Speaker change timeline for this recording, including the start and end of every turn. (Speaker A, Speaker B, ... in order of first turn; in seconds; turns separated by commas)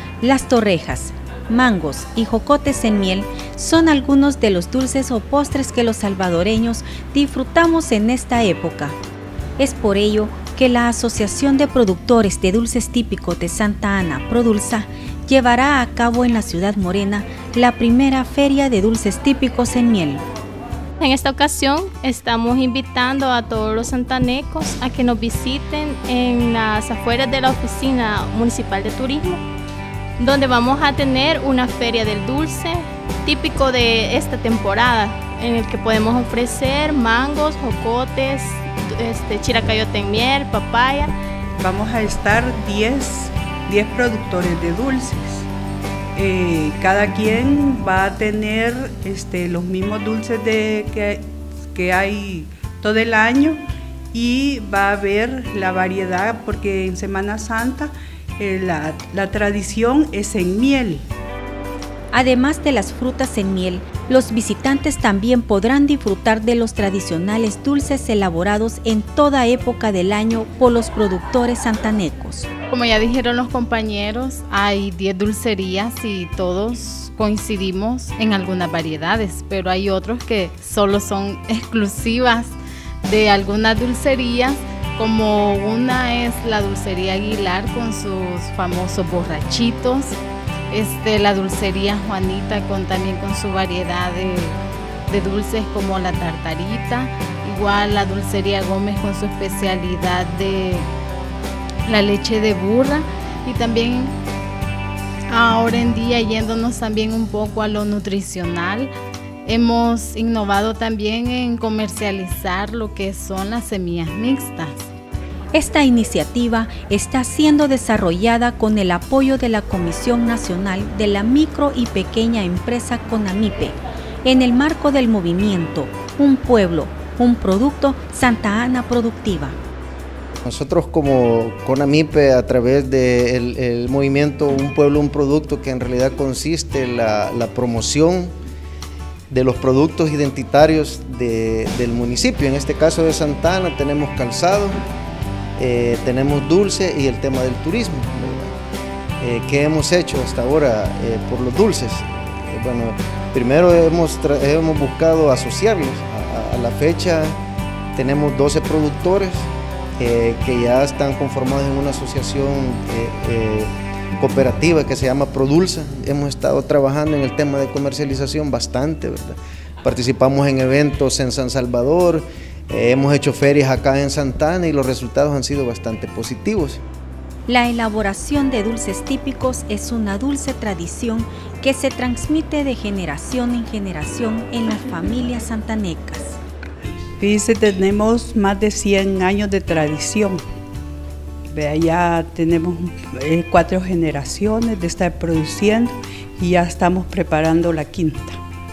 Speaker A: 0.2-8.9, Speaker A: 9.6-20.2, Speaker B: 21.0-29.4, Speaker B: 30.2-41.1, Speaker C: 41.6-45.5, Speaker C: 46.1-53.6, Speaker C: 54.1-61.0, Speaker A: 62.1-72.5, Speaker D: 72.7-90.2, Speaker D: 90.7-100.9, Speaker D: 101.9-104.1, Speaker D: 105.3-108.9, Speaker D: 109.5-114.9, Speaker A: 115.5-129.6, Speaker E: 130.4-138.3, Speaker E: 139.3-144.8, Speaker E: 145.6-148.5, Speaker E: 149.2-157.4, Speaker E: 157.9-176.8, Speaker A: 177.5-186.4, Speaker C: 187.2-190.4, Speaker C: 191.5-198.4